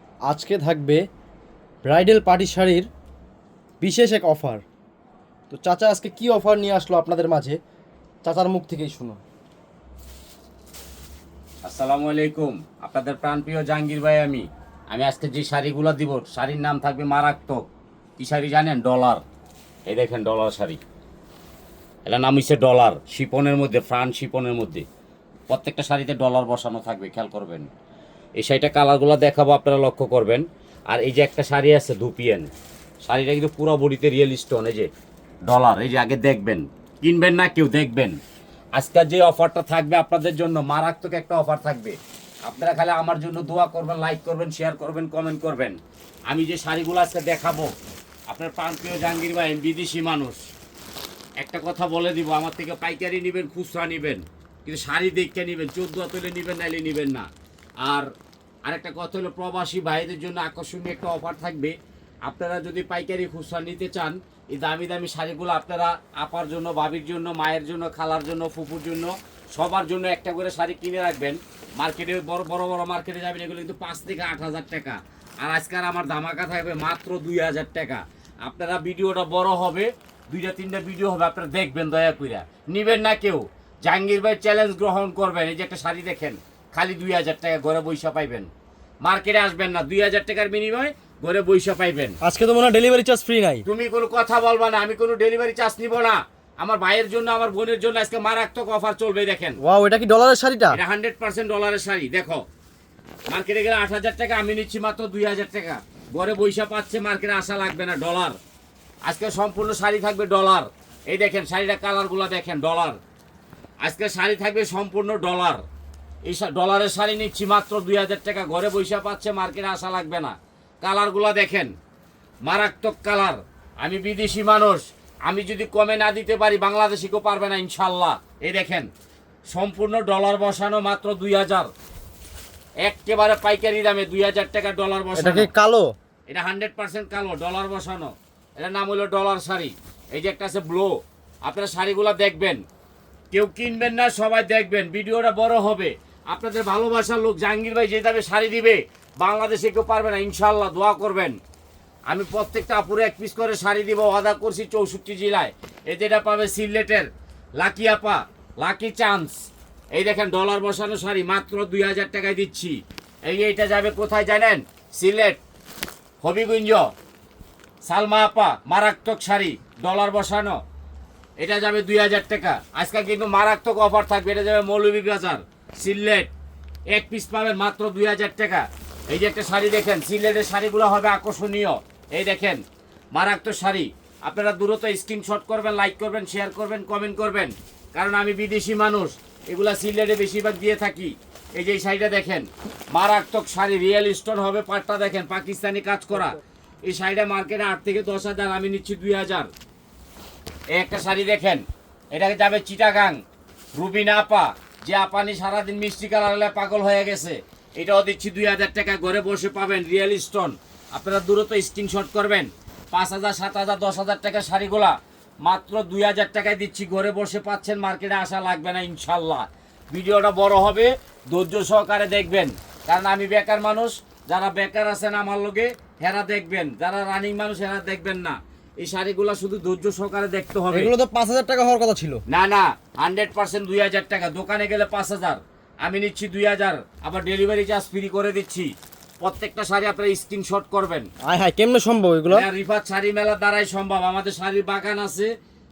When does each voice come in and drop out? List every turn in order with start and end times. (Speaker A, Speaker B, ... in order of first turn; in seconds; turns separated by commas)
Speaker A: 0.2-1.0, Speaker A: 1.8-2.9, Speaker A: 3.8-4.6, Speaker A: 5.5-7.6, Speaker A: 8.2-9.2, Speaker B: 11.6-17.6, Speaker B: 18.2-19.2, Speaker B: 19.9-20.8, Speaker B: 22.1-24.9, Speaker B: 25.5-27.7, Speaker B: 28.4-32.5, Speaker B: 33.0-34.9, Speaker B: 35.4-38.1, Speaker B: 38.7-45.8, Speaker B: 46.3-47.7, Speaker B: 48.3-50.4, Speaker B: 51.4-57.3, Speaker B: 58.6-88.5, Speaker B: 89.0-92.2, Speaker A: 92.2-93.6, Speaker B: 93.7-99.6, Speaker A: 99.6-100.8, Speaker B: 100.7-102.4, Speaker B: 103.3-108.3, Speaker B: 109.0-113.0, Speaker B: 113.8-115.6, Speaker B: 116.2-121.7, Speaker B: 122.4-128.9, Speaker B: 129.5-131.7, Speaker B: 132.8-135.5, Speaker A: 135.2-135.9, Speaker B: 136.3-142.6, Speaker B: 143.3-151.3, Speaker B: 152.1-157.1, Speaker B: 157.6-165.4, Speaker B: 166.2-166.9, Speaker B: 167.8-170.6, Speaker B: 171.4-176.3, Speaker B: 176.9-182.6, Speaker B: 183.1-199.5, Speaker B: 200.7-203.2, Speaker B: 203.7-230.9, Speaker A: 230.7-232.2, Speaker B: 232.3-241.1, Speaker A: 241.2-242.5, Speaker B: 242.3-245.3